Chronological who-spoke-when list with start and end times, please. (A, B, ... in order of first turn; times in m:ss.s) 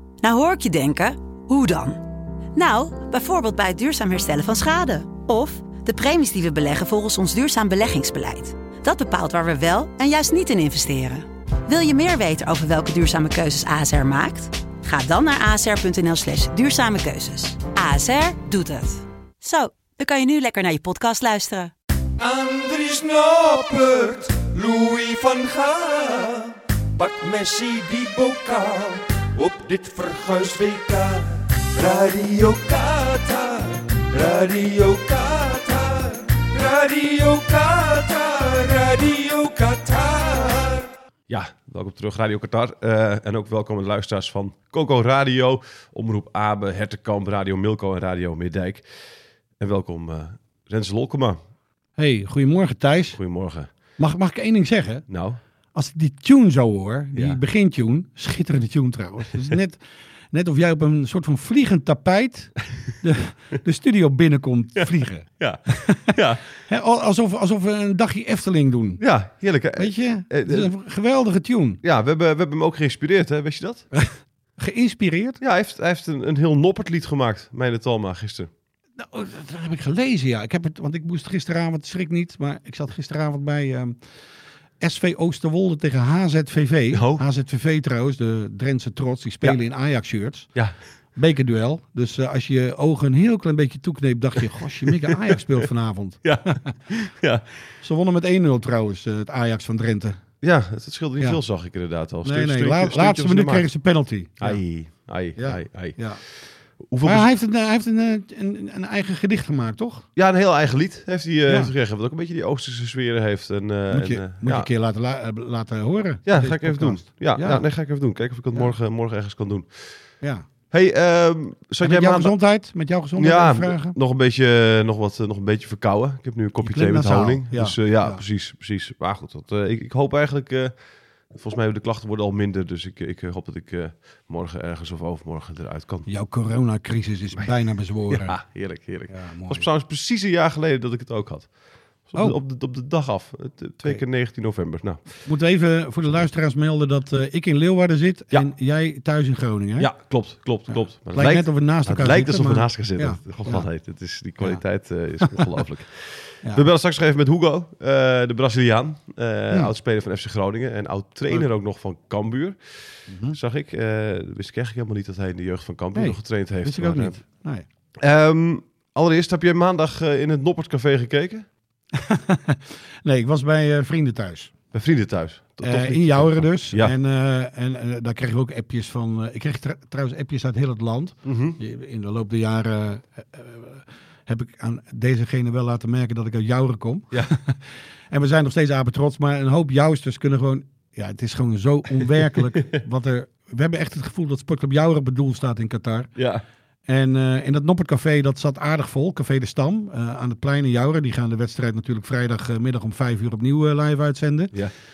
0:00.2-0:02.0 A
0:02.6-0:21.7 A
0:22.2-0:40.9 B
0:41.3-0:51.4 C
0:52.0-0:53.2 D
0:53.1-0:53.7 C
0:54.0-0:55.1 D
0:55.1-0:55.4 C
0:55.7-1:09.1 D
0:57.1-0:57.4 C
1:05.4-1:06.4 C
1:09.0-1:10.7 C
1:09.7-1:11.8 D
1:11.8-1:13.9 C
1:13.9-1:15.4 D
1:15.4-1:18.5 C
1:19.0-1:24.1 D
1:24.8-1:36.8 D
1:26.9-1:27.2 C
1:34.9-1:35.6 C
1:36.2-1:37.8 C
1:37.8-1:40.2 D
1:40.4-1:43.7 C
1:42.2-1:46.4 D
1:44.4-1:47.3 C
1:47.0-1:50.1 D
1:50.2-1:54.7 C
1:51.5-1:51.7 D
1:53.9-1:57.8 D
1:56.2-2:00.2 C
2:00.2-2:00.5 D
2:00.7-2:02.4 C
2:01.8-2:04.0 D
2:03.2-2:16.1 C
2:06.6-2:08.2 D
2:16.1-2:18.4 D
2:18.1-2:25.2 C
2:19.0-2:19.7 D
2:22.1-2:22.4 D
2:25.2-2:34.6 D
2:29.8-2:47.2 C
2:35.2-2:35.5 D
2:43.1-2:43.4 D
2:46.0-2:47.6 D
2:48.0-2:51.5 C
2:51.9-2:54.6 D
2:54.7-2:57.0 C
2:55.6-3:16.1 D
3:01.2-3:01.6 C
3:12.4-3:12.8 C
3:16.2-3:16.4 C
3:16.9-3:24.7 D